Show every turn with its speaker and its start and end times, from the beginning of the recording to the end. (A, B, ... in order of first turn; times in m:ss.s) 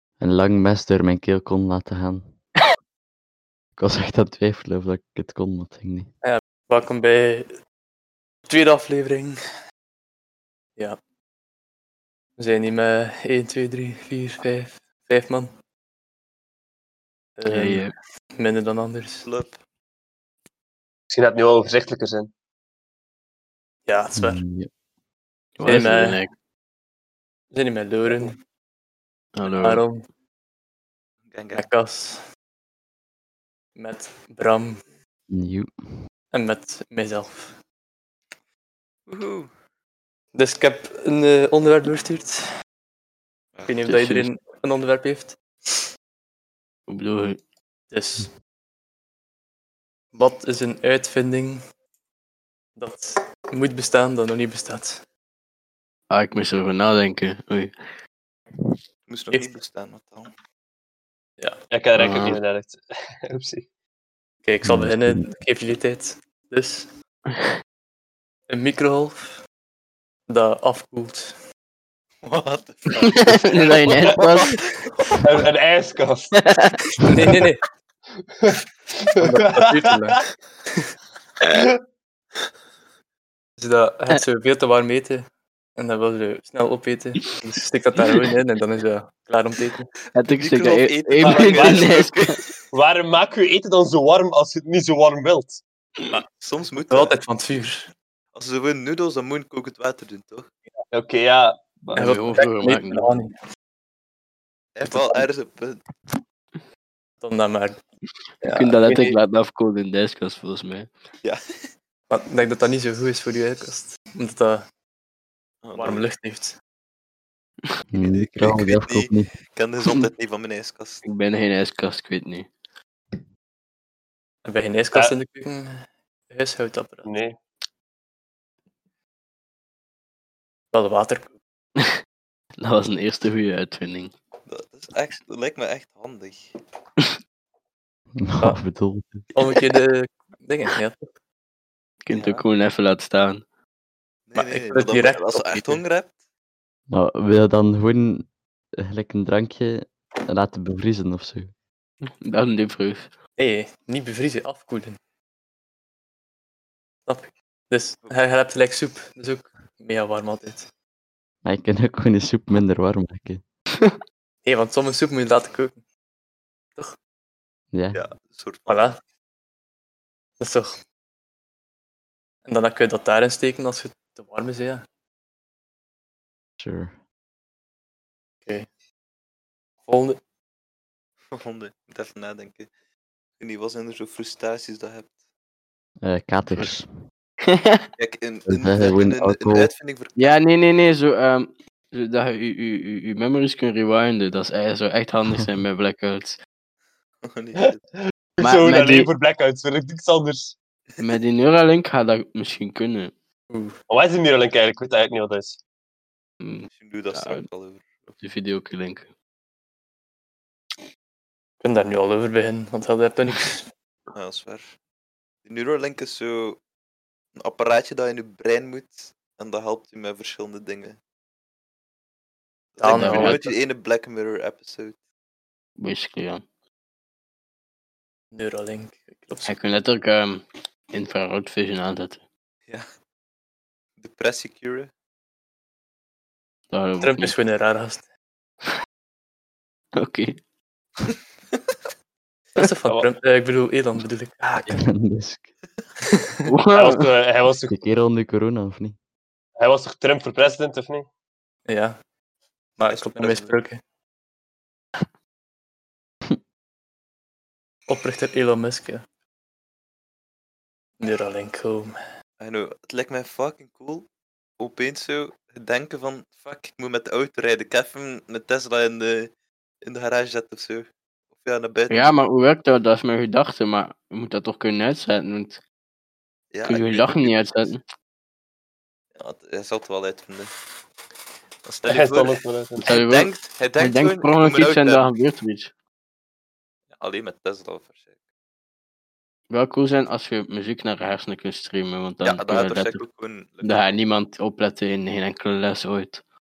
0:00.2-0:02.2 A
0:03.8-0:06.1 A
0:06.2-0:07.6 B
0:08.5-0:09.4 B
0:12.4-0:15.6 B
0:17.4-0:19.3 B
0:17.5-0:17.9 C
0:19.2-0:19.6 D
0:21.1-0:22.3 E
0:23.9-0:24.4 B
0:24.2-0:24.7 A
0:25.6-0:26.3 C
0:25.6-0:26.2 B
0:27.5-0:28.4 B
0:29.4-0:29.8 C
0:29.6-0:30.1 B
0:31.3-0:31.7 D
0:31.5-0:32.2 B
0:33.8-0:34.8 B
0:35.3-0:35.7 A
0:36.3-0:37.6 B
0:39.1-0:39.5 D
0:40.3-0:42.5 B
0:43.7-0:45.4 B
0:43.9-0:44.3 C
0:46.9-0:47.4 C
0:47.9-0:48.3 B
0:50.1-0:51.6 B
0:52.8-0:55.0 B
0:56.1-0:57.7 C
0:59.1-1:00.3 D
1:01.7-1:03.6 E
1:02.0-1:02.4 C
1:04.4-1:06.9 B
1:04.6-1:05.2 A
1:08.5-1:09.4 B
1:10.3-1:11.4 B
1:12.2-1:15.2 D
1:13.1-1:14.6 C
1:15.2-1:16.4 E
1:16.3-1:16.8 C
1:17.0-1:17.6 B
1:18.4-1:20.0 E
1:19.2-1:20.2 B
1:21.4-1:21.7 E
1:23.6-1:29.9 B
1:30.1-1:32.4 C
1:30.4-1:32.6 D
1:31.2-1:32.0 E
1:32.7-1:35.6 E
1:36.4-1:37.2 D
1:36.9-1:37.9 B
1:38.3-1:40.5 D
1:40.9-1:42.3 E
1:42.0-1:43.3 B
1:42.0-1:43.1 C
1:44.8-1:45.8 D
1:44.9-1:45.3 B
1:47.2-1:47.8 B
1:48.4-1:49.2 B
1:48.5-1:50.9 C
1:52.1-1:54.7 B
1:55.6-1:56.1 D
1:55.8-1:56.6 B
1:57.9-1:59.3 A
1:58.0-2:01.0 D
2:01.0-2:02.5 C
2:04.4-2:07.1 B
2:07.0-2:07.4 E
2:10.7-2:11.3 B
2:12.6-2:14.1 C
2:14.5-2:16.6 D
2:18.2-2:19.3 A
2:19.3-2:21.1 B
2:22.0-2:23.4 C
2:22.1-2:22.5 D
2:24.3-2:26.1 D
2:24.4-2:25.8 B
2:26.9-2:31.5 A
2:32.0-2:33.1 C
2:33.4-2:35.0 B
2:37.1-2:40.7 B
2:41.4-2:43.4 A
2:44.4-2:45.8 B
2:47.7-2:48.0 A
2:47.9-2:48.9 D
2:48.7-2:49.0 B
2:50.4-2:50.8 B
2:52.5-2:54.9 B
2:56.6-2:56.9 A
2:59.9-3:00.2 B
3:01.3-3:02.7 D
3:03.4-3:05.1 D
3:06.0-3:06.9 A
3:07.4-3:07.8 C
3:08.0-3:10.3 D
3:08.5-3:09.7 A
3:10.2-3:16.4 C
3:17.2-3:17.8 D
3:18.4-3:20.5 E
3:18.4-3:19.1 C
3:21.0-3:23.1 C
3:23.5-3:23.8 B
3:23.9-3:25.6 E
3:26.4-3:27.5 C
3:26.7-3:28.1 D
3:28.2-3:29.1 C
3:31.6-3:33.7 B
3:34.1-3:34.7 D
3:35.4-3:36.6 D
3:37.4-3:41.0 D
3:42.8-3:45.0 D
3:42.8-3:43.5 B
3:42.8-3:43.5 C
3:45.8-3:46.4 C
3:48.3-3:49.6 B
3:49.5-3:52.2 C
3:54.0-3:54.9 D
3:56.7-3:57.4 C
3:57.0-3:58.0 B
4:00.0-4:00.4 C
4:02.6-4:04.8 B
4:04.7-4:05.5 A
4:06.4-4:07.1 C
4:06.7-4:07.8 E
4:07.7-4:09.0 A
4:09.6-4:11.1 E
4:11.7-4:12.0 B
4:12.8-4:13.8 B
4:12.9-4:13.6 D
4:17.9-4:19.0 B
4:21.0-4:21.9 B
4:22.4-4:24.1 D
4:24.6-4:29.3 D
4:29.8-4:32.1 D
4:31.9-4:35.6 C
4:36.5-4:37.4 D
4:36.7-4:37.8 C
4:39.2-4:40.5 D
4:41.6-4:45.0 D
4:41.9-4:42.9 E
4:42.8-4:45.7 C
4:46.9-4:48.1 D
4:49.5-4:53.0 C
4:52.2-4:54.0 D
4:53.6-4:56.2 C